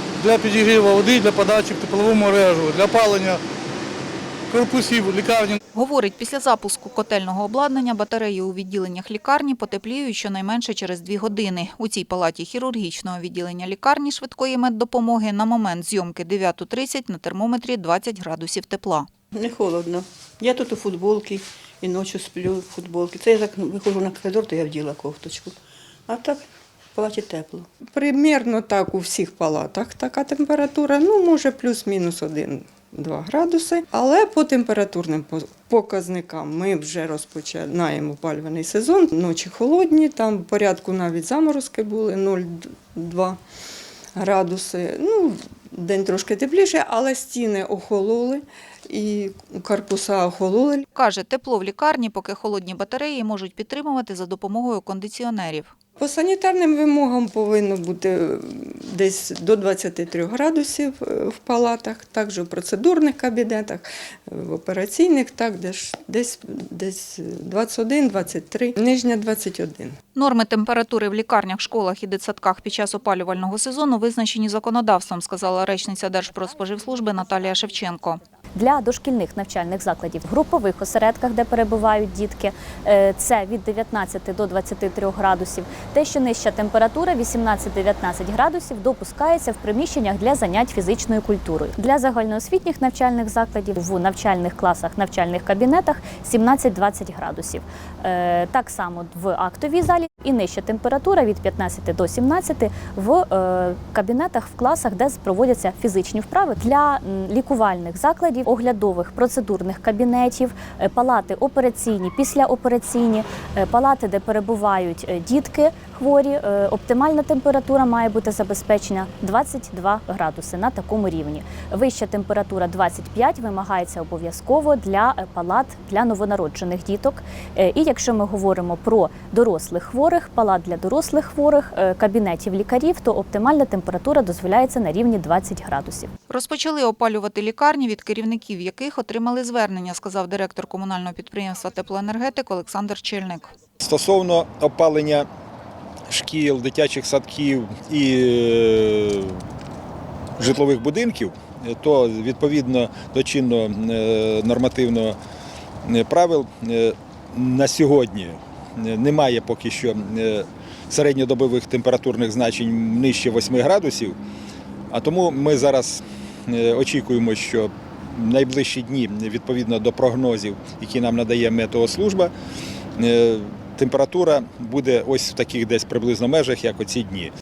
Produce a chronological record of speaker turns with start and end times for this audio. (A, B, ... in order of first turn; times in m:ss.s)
0:00.2-0:03.4 A
0:04.5-0:05.6 A
0:05.7-0:19.1 B
0:19.3-0:27.7 C
0:27.8-0:43.4 D
0:44.1-0:50.8 D
0:50.9-0:55.7 B
0:56.0-1:10.0 D
1:10.2-1:18.2 B
1:18.5-2:16.1 E
2:16.3-2:23.5 B
2:23.8-2:25.3 F
2:26.1-2:29.4 F
2:30.4-2:35.2 F
2:35.8-2:44.2 F
2:44.9-2:52.3 F
2:53.0-2:57.3 F